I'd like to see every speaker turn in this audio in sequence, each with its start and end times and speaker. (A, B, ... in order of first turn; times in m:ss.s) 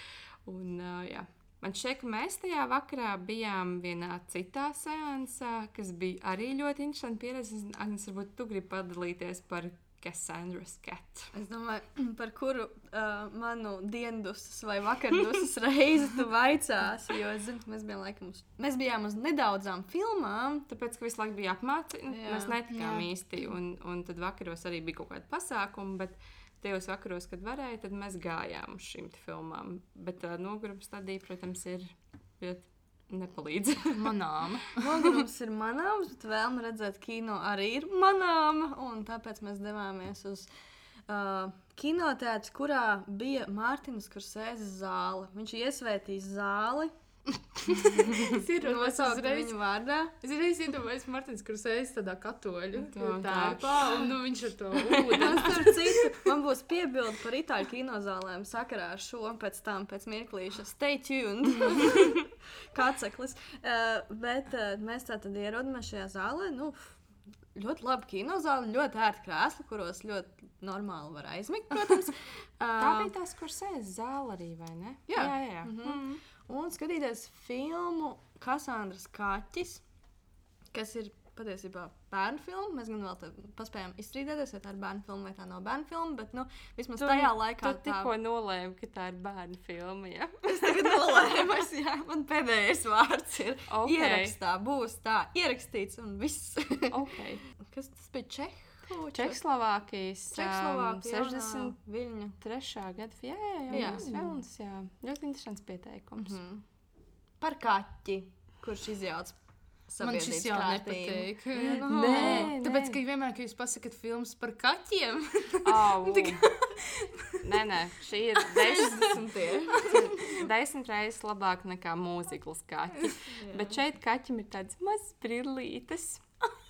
0:00.4-0:11.3 A
0:11.3-0:20.7 B
0:20.7-0:34.1 A
0:22.1-0:22.6 B
0:22.7-0:23.1 C
0:33.9-0:35.2 C
0:34.7-0:40.5 B
0:41.1-0:46.9 B
0:47.5-0:49.6 C
0:48.0-0:50.2 B
0:50.2-0:56.2 C
0:52.8-0:54.0 A
0:55.1-1:07.0 B
1:07.5-1:13.1 B
1:12.8-1:16.2 A
1:15.1-1:19.8 B
1:20.7-1:28.1 B
1:27.0-1:31.3 A
1:30.4-1:37.0 B
1:33.7-1:34.3 A
1:36.9-1:37.4 A
1:37.6-1:39.4 B
1:39.1-1:41.8 A
1:40.3-1:42.4 B
1:42.4-1:46.4 A
1:43.7-1:44.3 B
1:43.7-1:44.3 C
1:46.2-1:46.6 B
1:47.4-1:49.3 B
1:49.9-1:52.5 B
1:50.0-1:57.5 C
1:51.6-1:53.0 A
1:55.6-1:56.5 A
1:57.4-2:06.2 A
1:58.5-2:00.1 B
1:59.8-2:00.1 C
2:03.3-2:03.8 B